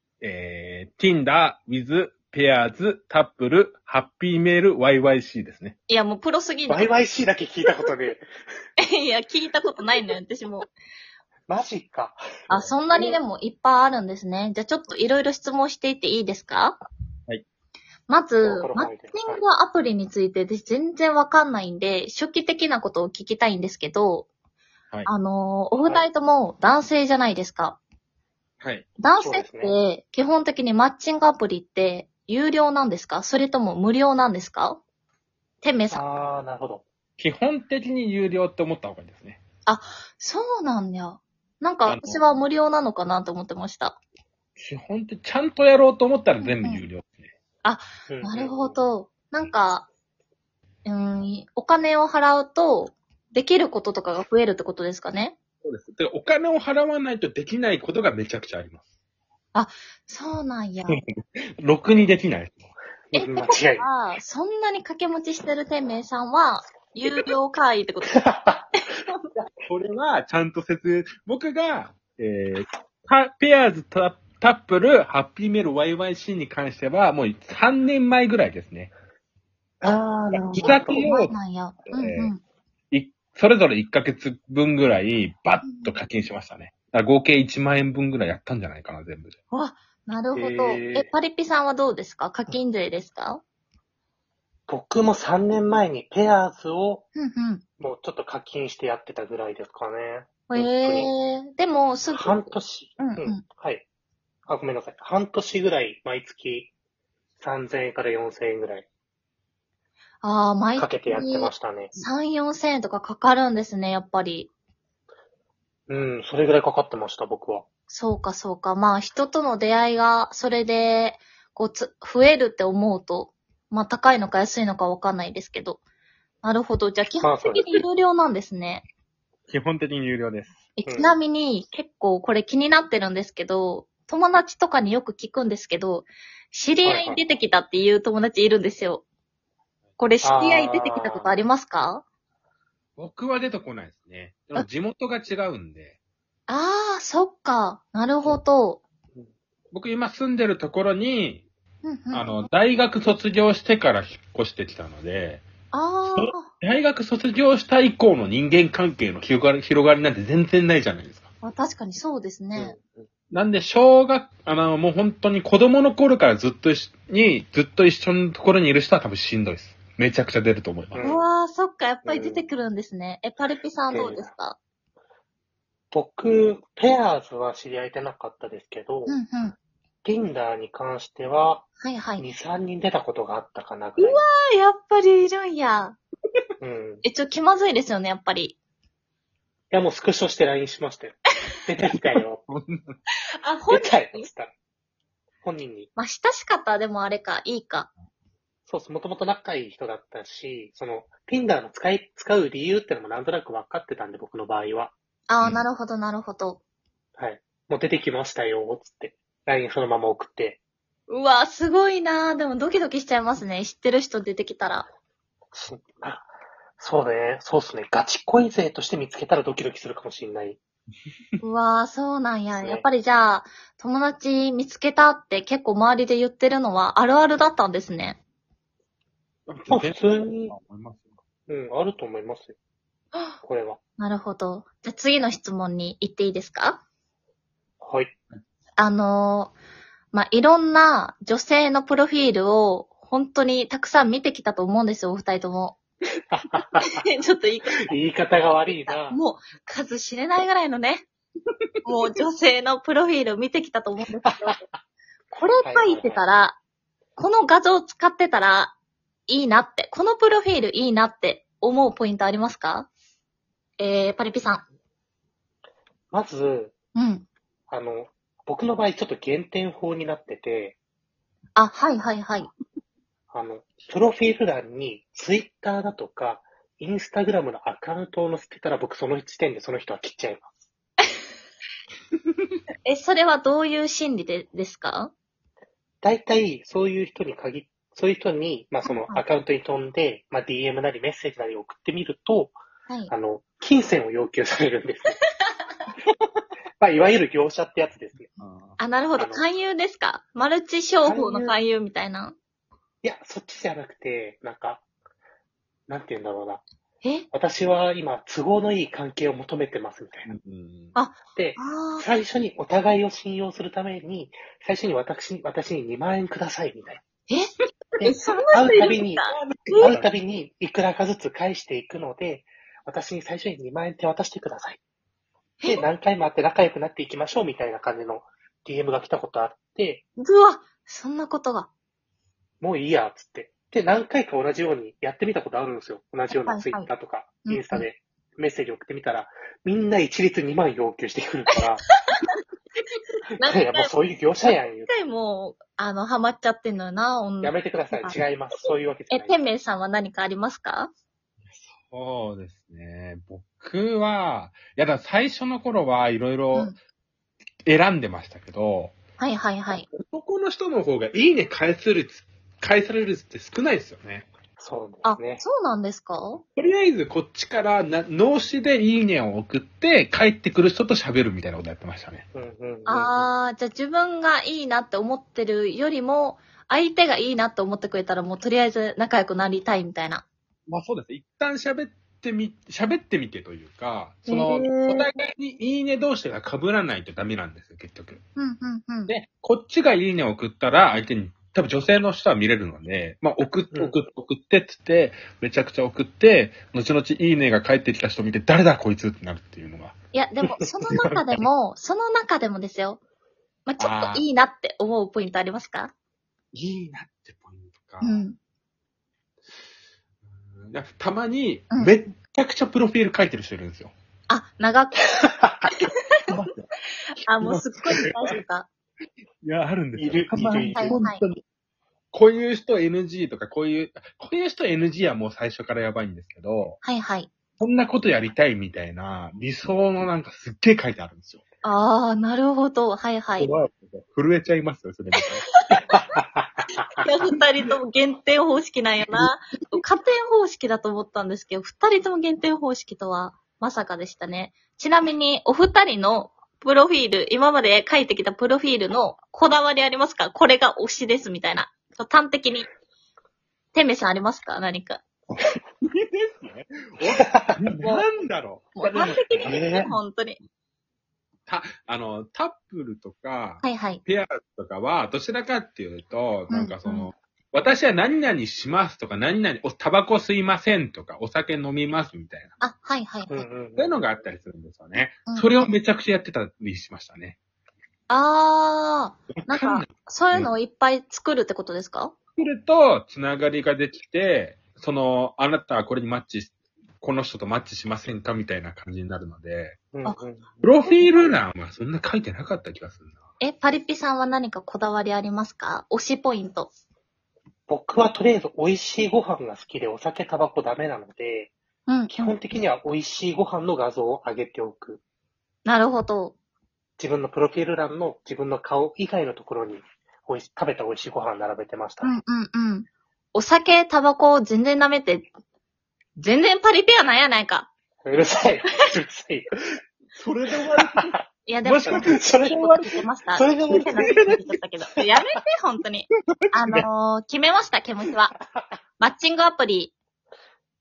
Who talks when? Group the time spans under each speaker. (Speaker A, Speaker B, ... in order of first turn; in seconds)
Speaker A: 0.2-5.7, 28.6-28.9, 37.2-39.4, 41.9-42.2, 44.6-47.2, 55.6-58.8, 60.9-62.6, 69.6-78.9, 80.3-82.3, 82.9-89.3, 129.5-130.6, 143.0-146.0, 149.7-151.4, 152.1-155.4, 156.1-161.3, 163.3-171.1, 191.9-192.9, 229.5-231.1, 298.4-298.8, 310.3-310.9, 318.7-320.1, 351.5-356.8, 357.6-358.9, 359.9-364.3, 366.5-372.2, 380.7-388.2, 389.1-399.9, 403.8-404.2, 406.5-408.2, 410.2-413.9, 416.3-416.7, 417.4-418.2, 419.4-421.4, 422.1-426.8, 427.6-431.4, 433.4-435.5, 455.8-459.8, 461.5-472.5, 473.8-477.4, 479.3-480.5, 482.4-489.8, 490.6-493.1, 520.1-522.9, 523.7-524.4
Speaker B: 5.9-6.9, 8.8-10.7, 12.5-16.8, 18.1-24.3, 25.1-27.8, 29.0-34.8, 35.6-36.0, 39.6-44.0, 46.4-46.8, 47.6-49.9, 50.8-55.4, 59.5-61.0, 63.1-68.2, 68.8-69.2, 80.6-82.4, 85.6-86.0, 89.5-93.4, 97.1-97.6, 100.5-103.4, 110.2-114.5, 117.9-125.8, 126.4-128.8, 130.8-139.0, 140.0-142.0, 146.5-148.8, 151.8-152.5, 155.7-156.5, 161.4-162.8, 171.0-174.6, 179.1-179.6, 181.8-182.2, 184.0-186.0, 187.0-188.6, 193.4-194.3, 195.9-197.9, 205.3-206.6, 211.1-214.9, 221.4-228.2, 233.1-233.4, 234.0-236.8, 238.8-239.5, 240.1-245.8, 246.8-247.9, 248.8-251.1, 251.8-254.5, 255.3-256.6, 257.2-258.7, 259.3-262.9, 263.8-264.6, 266.9-267.2, 271.6-272.5, 282.8-285.1, 288.8-289.2, 298.8-302.4, 307.0-307.3, 310.9-312.1, 318.0-319.9, 325.6-325.9, 330.2-331.7, 336.3-336.9, 337.4-337.9, 343.3-348.2, 349.1-350.9, 359.2-359.9, 365.0-366.4, 372.9-380.2, 384.3-385.1, 388.4-389.1, 400.1-403.0, 403.6-405.9, 408.0-408.4, 414.3-415.1, 417.2-418.7, 420.6-421.2, 426.8-427.3, 431.6-433.5, 437.0-452.7, 453.7-455.0, 457.8-458.1, 458.8-460.4, 463.6-464.0, 466.5-467.1, 472.6-473.5, 475.2-475.5, 478.1-482.1, 493.4-496.7, 501.9-502.3, 505.6-506.3, 512.0-515.3, 516.1-517.7, 521.5-528.3, 529.0-529.9
Speaker C: 6.7-8.2, 11.5-12.2, 12.9-13.2, 18.4-19.4, 29.2-29.8, 35.9-36.8, 48.1-48.8, 63.1-63.9, 68.2-68.7, 79.8-81.0, 90.3-91.1, 94.7-97.1, 97.8-101.1, 102.1-103.8, 104.5-106.7, 107.4-108.9, 110.8-112.0, 115.9-117.7, 127.2-127.8, 130.8-131.1, 136.8-137.2, 140.2-141.3, 162.5-163.0, 170.9-171.2, 172.0-172.5, 173.9-174.3, 175.9-179.2, 180.0-184.2, 186.6-187.0, 189.7-192.4, 193.7-194.5, 195.4-195.9, 198.7-204.9, 207.2-210.6, 215.5-220.6, 222.5-222.9, 229.7-230.6, 231.5-232.6, 233.4-233.8, 237.8-238.1, 246.3-247.0, 247.8-249.2, 254.2-254.6, 255.6-256.2, 266.1-266.7, 267.7-270.8, 273.3-280.5, 286.0-292.6, 293.1-295.2, 296.8-298.4, 299.1-299.4, 301.0-301.6, 303.0-304.8, 305.9-306.6, 307.3-310.3, 311.3-317.0, 318.5-324.8, 325.6-330.0, 332.6-341.8, 343.4-344.9, 347.4-349.4, 364.6-365.4, 372.3-373.3, 393.7-393.9, 400.4-401.2, 415.0-415.7, 419.9-421.0, 435.9-436.8, 459.4-459.9, 473.3-474.0, 489.9-490.6, 497.7-501.5, 502.1-505.0, 507.0-512.1, 518.0-519.8, 520.7-521.2, 521.8-524.4, 525.0-525.2